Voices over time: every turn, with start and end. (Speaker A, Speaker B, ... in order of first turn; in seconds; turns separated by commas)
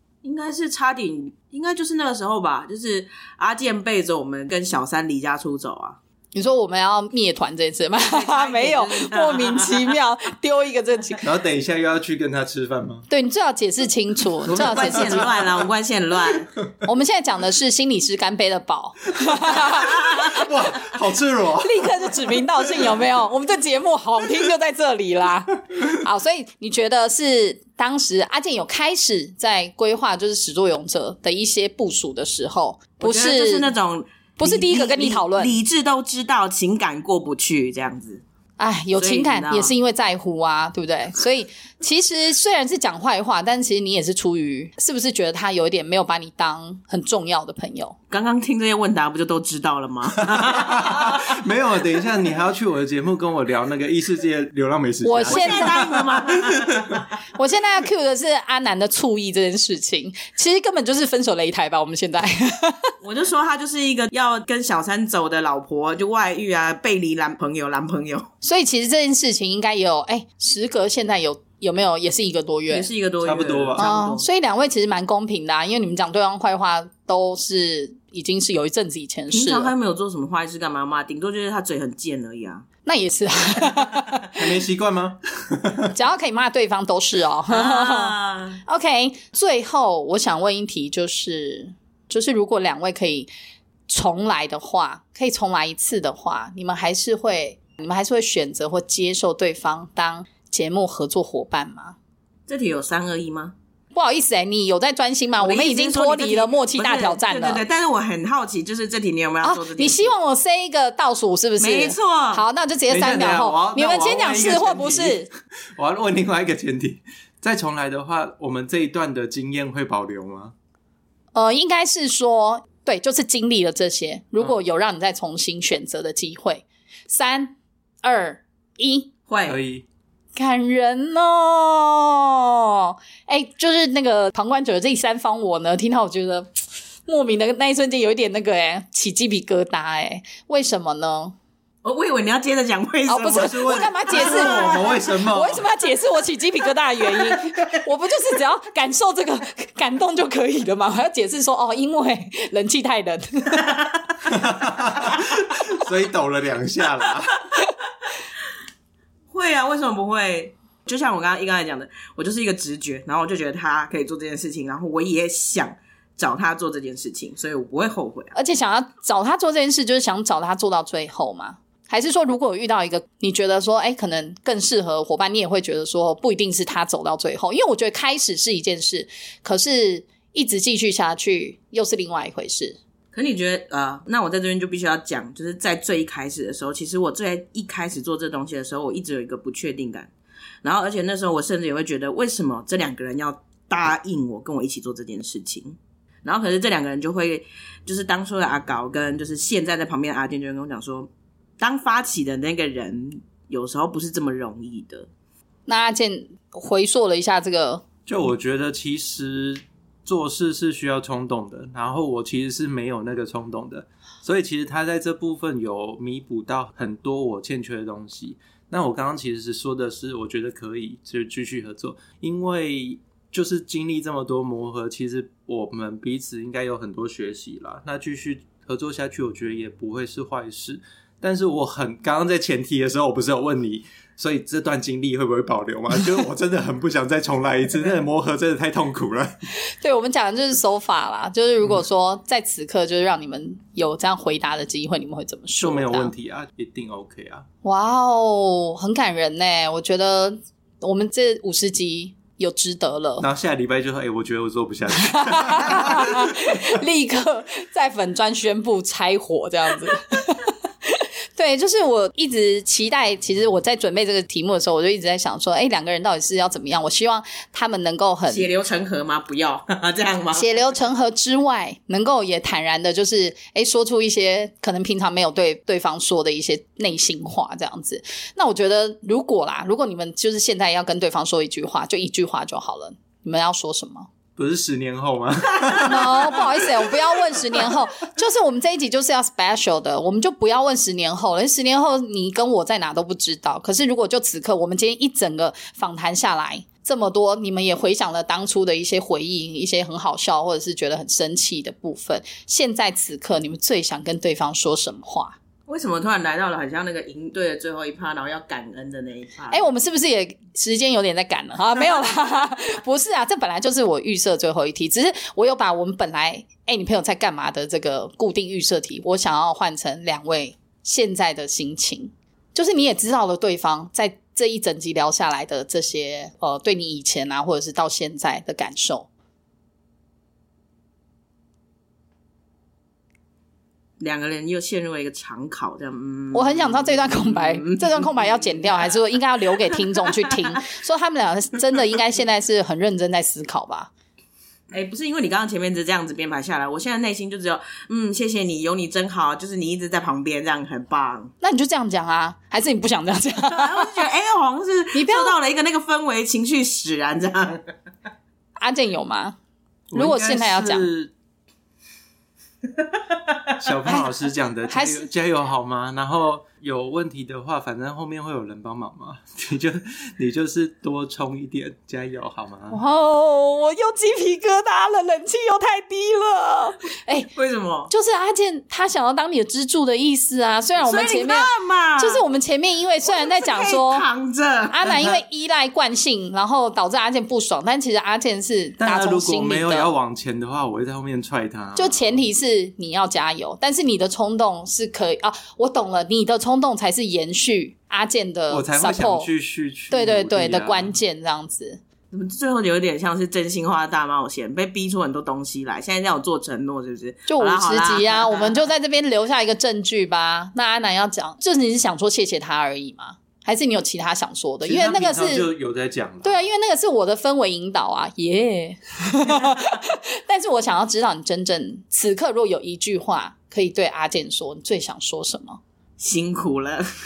Speaker A: 0.2-6.0, Speaker B: 6.3-11.2, Speaker A: 8.0-9.9, Speaker C: 11.2-13.1, Speaker B: 13.1-15.3, Speaker A: 14.4-16.5, Speaker C: 14.7-15.2, Speaker B: 16.8-20.5, Speaker C: 19.4-22.4, Speaker B: 21.6-33.7, Speaker A: 33.0-38.2, Speaker B: 34.4-35.6, Speaker B: 38.6-47.9, Speaker A: 39.0-39.7, Speaker A: 48.1-51.3, Speaker C: 50.2-55.8, Speaker B: 55.0-55.9, Speaker A: 55.2-57.0, Speaker B: 57.3-62.9, Speaker A: 63.0-68.3, Speaker B: 68.4-72.9, Speaker A: 72.7-74.2, Speaker C: 73.2-73.9, Speaker B: 73.8-79.7, Speaker A: 79.3-82.6, Speaker B: 82.8-84.3, Speaker C: 84.4-85.9, Speaker B: 85.9-93.3, Speaker A: 87.5-88.6, Speaker B: 93.9-102.0, Speaker A: 102.5-103.5, Speaker B: 103.9-107.6, Speaker A: 105.4-110.1, Speaker B: 109.4-115.3, Speaker A: 111.6-112.4, Speaker C: 112.9-115.2, Speaker C: 115.8-120.5, Speaker B: 121.3-129.1, Speaker A: 129.3-129.6, Speaker C: 129.4-129.8, Speaker B: 130.3-136.5, Speaker B: 137.1-141.3, Speaker A: 141.8-145.0, Speaker B: 143.1-153.7, Speaker C: 143.3-145.7, Speaker A: 147.1-147.7, Speaker C: 154.2-157.3, Speaker A: 159.3-168.3, Speaker B: 168.3-182.8, Speaker A: 183.1-190.1, Speaker A: 190.6-205.1, Speaker B: 205.7-207.8, Speaker C: 208.1-239.4, Speaker B: 239.7-246.1, Speaker C: 245.6-247.4, Speaker B: 247.6-253.3, Speaker C: 253.2-256.7, Speaker B: 255.0-268.5, Speaker A: 268.3-270.4, Speaker B: 270.3-284.1, Speaker C: 284.4-286.6, Speaker B: 285.8-305.4, Speaker A: 305.7-309.7, Speaker B: 309.5-329.1, Speaker A: 334.0-339.0, Speaker B: 336.3-343.9, Speaker A: 339.5-340.3, Speaker A: 344.7-351.3, Speaker B: 351.4-354.0, Speaker A: 353.4-357.6, Speaker B: 354.9-355.4, Speaker B: 358.6-359.4, Speaker C: 359.9-361.1, Speaker B: 359.9-360.9, Speaker C: 363.6-372.8, Speaker B: 364.7-365.1, Speaker B: 372.7-377.3, Speaker A: 377.3-377.9, Speaker B: 377.9-384.1, Speaker A: 380.8-382.2, Speaker A: 383.0-384.8, Speaker B: 384.7-389.9, Speaker C: 384.8-385.2, Speaker C: 388.8-392.2, Speaker B: 391.8-399.3, Speaker C: 398.5-400.9, Speaker B: 399.9-401.8, Speaker A: 402.1-408.6, Speaker B: 407.3-415.5, Speaker C: 414.6-416.5, Speaker B: 416.2-425.6, Speaker A: 426.0-426.8